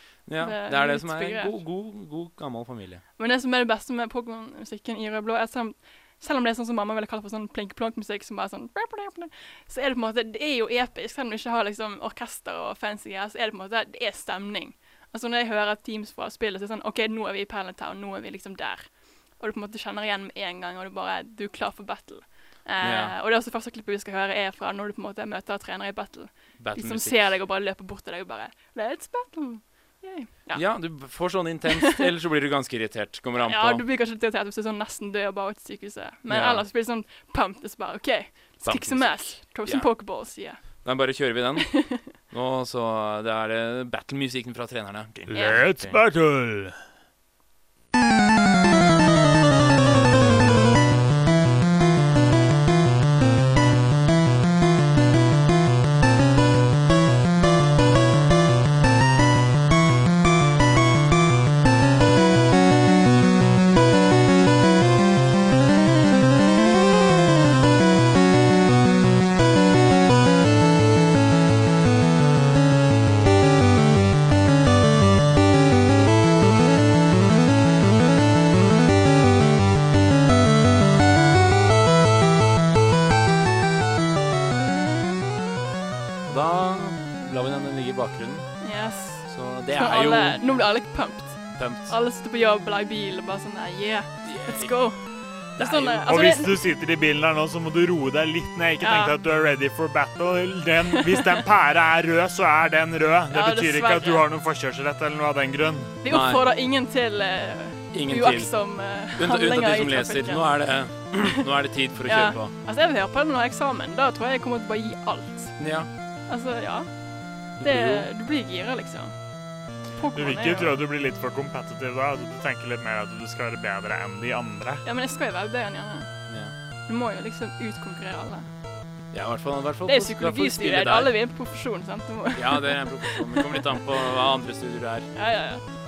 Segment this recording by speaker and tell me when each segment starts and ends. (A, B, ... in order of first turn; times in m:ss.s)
0:00.3-0:03.0 A
0:00.4-0:01.6 B
0:03.2-0:30.6 B
0:22.8-0:23.1 A
0:26.6-0:27.3 A
0:30.5-0:33.8 A
0:33.4-0:40.8 B
0:36.3-0:36.6 A
0:38.6-0:39.9 A
0:40.7-0:46.0 A
0:41.6-0:42.0 B
0:45.3-0:46.8 C
0:45.3-0:45.7 B
1:26.3-1:28.6 A
1:28.6-1:36.6 B
1:29.2-1:30.4 A
1:31.5-1:32.0 A
1:34.2-1:34.9 A
1:35.6-1:36.0 A
1:36.0-1:45.9 C
1:38.8-1:39.2 B
1:40.9-1:41.4 B
1:43.3-1:44.3 B
1:46.0-1:51.1 B
1:46.1-1:46.4 A
1:47.9-1:48.6 A
1:49.1-1:52.5 A
1:52.1-1:59.2 B
1:55.6-1:55.9 A
1:57.6-1:58.1 A
1:59.8-2:00.8 B
2:00.2-2:04.8 C
2:04.8-2:06.3 B
2:06.3-2:06.5 A
2:06.9-2:08.5 B
2:09.1-2:11.1 A
2:09.9-2:13.8 B
2:12.4-2:15.1 A
2:15.1-2:15.6 B